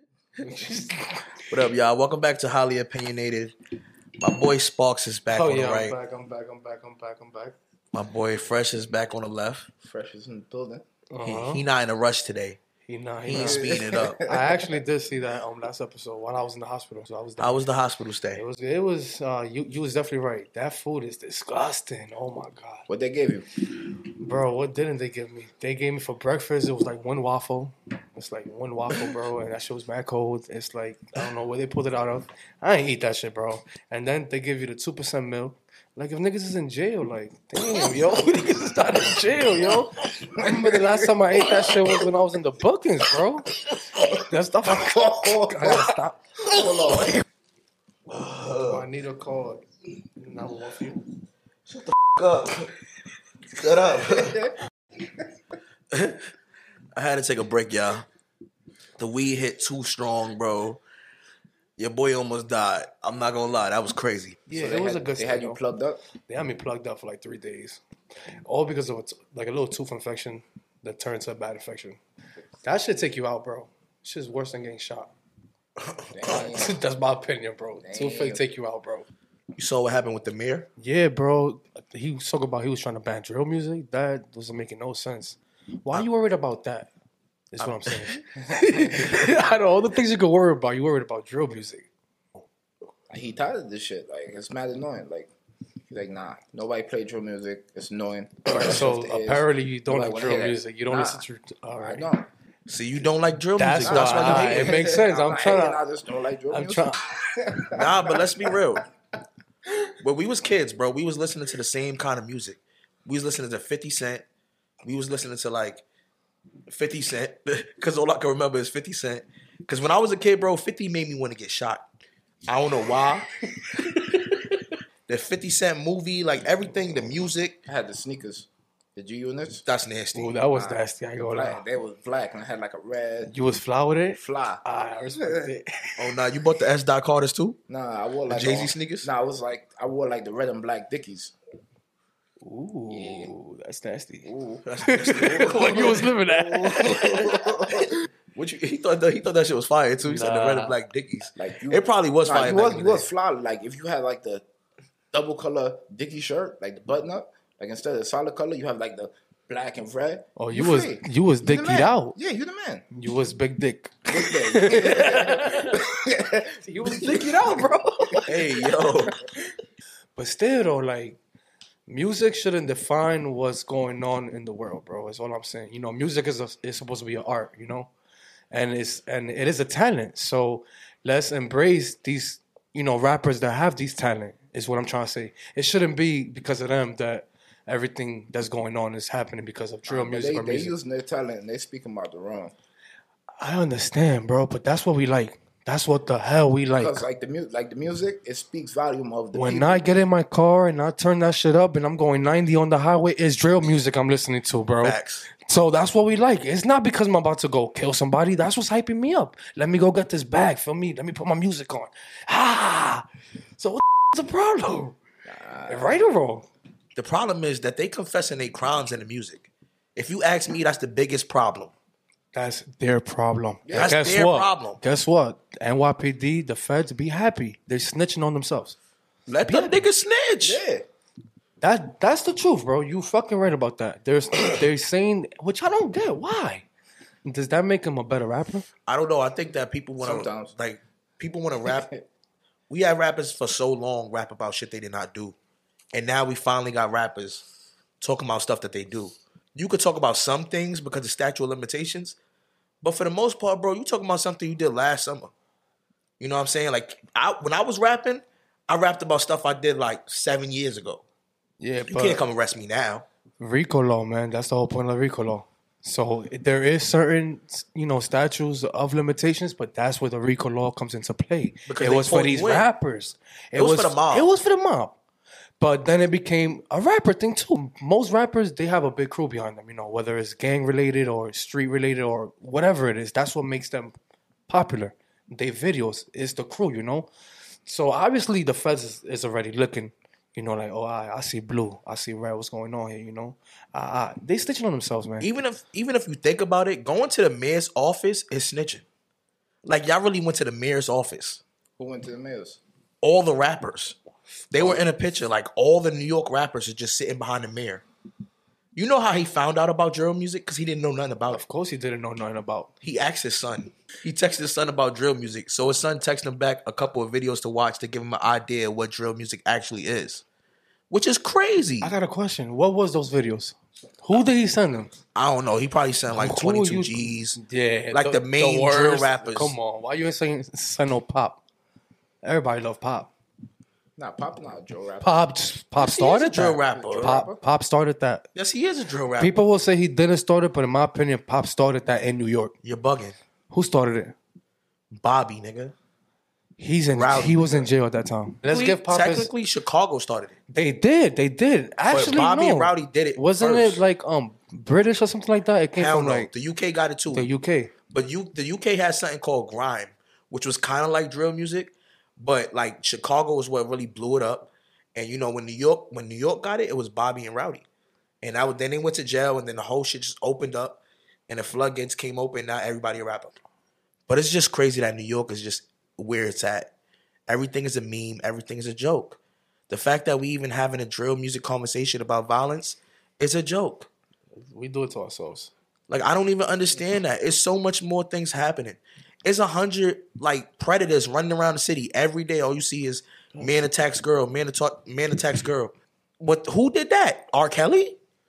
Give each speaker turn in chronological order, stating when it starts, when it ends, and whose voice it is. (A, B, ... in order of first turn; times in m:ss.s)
0:00.4-0:01.5 A
0:01.5-0:03.6 B
0:04.2-0:06.0 B
0:05.3-0:07.6 A
0:07.9-0:09.7 B
0:09.8-0:10.8 C
0:11.1-0:11.7 A
0:11.2-0:12.6 B
0:12.8-0:17.6 A
0:13.2-0:14.2 B
0:13.3-0:14.8 C
0:17.4-0:18.4 B
0:18.3-0:22.8 A
0:22.9-0:23.5 C
0:24.2-0:43.5 A
0:40.4-0:41.0 C
0:44.1-0:46.2 A
0:44.9-0:45.8 C
0:46.5-0:47.1 C
0:46.6-0:46.9 B
0:48.1-0:48.9 B
0:48.7-0:49.6 A
0:50.2-0:51.0 A
0:51.7-0:52.7 B
0:53.5-0:54.5 B
0:55.9-0:56.3 B
0:57.0-0:58.1 B
0:59.0-1:00.8 B
1:01.8-1:04.4 B
1:04.5-1:05.6 A
1:04.5-1:06.0 C
1:06.3-1:07.8 A
1:08.4-1:12.0 A
1:12.6-1:15.1 A
1:15.8-1:16.4 B
1:16.1-1:16.8 C
1:16.2-1:19.1 A
1:17.8-1:18.4 C
1:19.6-1:20.7 B
1:20.8-1:26.9 A
1:27.5-1:31.9 A
1:27.6-1:28.2 B
1:28.6-1:29.2 C
1:33.1-1:35.3 C
1:35.9-1:41.2 C
1:38.5-1:42.1 A
1:41.8-1:42.3 C
1:42.7-1:44.8 B
1:43.6-1:45.8 A
1:43.8-1:48.3 C
1:46.5-1:47.0 A
1:47.7-1:48.8 B
1:50.0-1:54.2 B
1:54.8-1:55.8 B
1:56.7-2:01.8 B
2:02.5-2:03.3 B
2:03.9-2:04.2 B
2:05.1-2:07.6 B
2:07.7-2:09.6 C
2:09.6-2:10.4 B
2:10.1-2:11.6 A
2:10.5-2:13.3 C
2:13.3-2:16.1 A
2:14.1-2:14.6 C
2:16.0-2:17.6 B
2:17.7-2:21.3 C
2:18.3-2:19.1 B
2:22.4-2:24.3 A
2:22.9-2:23.3 C
2:24.2-2:27.7 C
2:24.6-2:26.1 B
2:24.8-2:27.6 A
2:27.1-2:33.1 B
2:30.0-2:30.8 A
2:31.4-2:34.4 C
2:35.1-2:42.8 C
2:40.4-2:42.2 A
2:42.9-2:46.0 A
2:44.1-2:47.6 C
2:46.6-2:48.5 A
2:48.3-2:49.2 B
2:50.2-2:51.2 A
2:51.9-2:57.9 A
2:58.5-3:10.7 A
3:09.9-3:12.5 C
3:13.4-3:17.1 A
3:16.8-3:19.9 C
3:19.3-3:33.0 A
3:24.8-3:25.3 B
3:33.6-3:35.0 A
3:35.3-3:36.1 C
3:35.7-3:36.5 A
3:37.0-3:41.7 B
3:42.3-3:48.8 A
3:43.7-3:44.0 C
3:43.7-3:44.8 B
3:49.3-3:50.6 B
3:49.4-3:49.8 A
3:50.4-3:50.9 C
3:51.6-3:56.7 A
3:57.2-3:58.7 A
3:58.9-4:01.9 B
4:00.0-4:00.6 C
4:01.7-4:02.1 C
4:02.7-4:05.4 B
4:05.9-4:07.4 B
4:08.0-4:12.2 B
4:12.8-4:15.3 B
4:16.2-4:21.0 B
4:21.6-4:22.2 A
4:21.9-4:23.0 B
4:23.4-4:35.0 A
4:31.7-4:32.7 B
4:33.6-4:34.3 B
4:35.6-4:44.0 A
4:44.5-4:47.1 A
4:47.7-4:55.3 A
4:55.2-4:58.8 B
4:59.6-5:01.4 B
5:01.8-5:02.6 C
5:03.0-5:04.0 B
5:04.5-5:07.8 B
5:08.8-5:11.4 B
5:11.3-5:12.7 A
5:12.8-5:20.2 B
5:20.9-5:21.9 B
5:21.8-5:24.9 A
5:25.2-5:27.4 B
5:26.1-5:31.4 A
5:27.9-5:29.6 B
5:32.2-5:33.1 A
5:34.0-5:35.2 C
5:35.0-5:38.3 A
5:35.8-5:37.2 B
5:36.7-5:37.4 C
5:38.4-5:39.4 B
5:39.2-5:42.6 A
5:42.6-5:43.2 B
5:43.5-5:44.2 A
5:45.0-5:45.7 B
5:46.6-5:49.3 A
5:46.9-5:47.7 B
5:48.5-5:50.4 B
5:50.5-5:56.3 A
5:51.9-5:53.8 B
5:55.8-5:57.3 B
5:57.1-5:57.7 A
5:57.9-6:07.6 B
6:08.2-6:13.4 B
6:14.1-6:16.7 B
6:17.3-6:23.9 B
6:24.4-6:25.5 A
6:25.9-6:38.0 B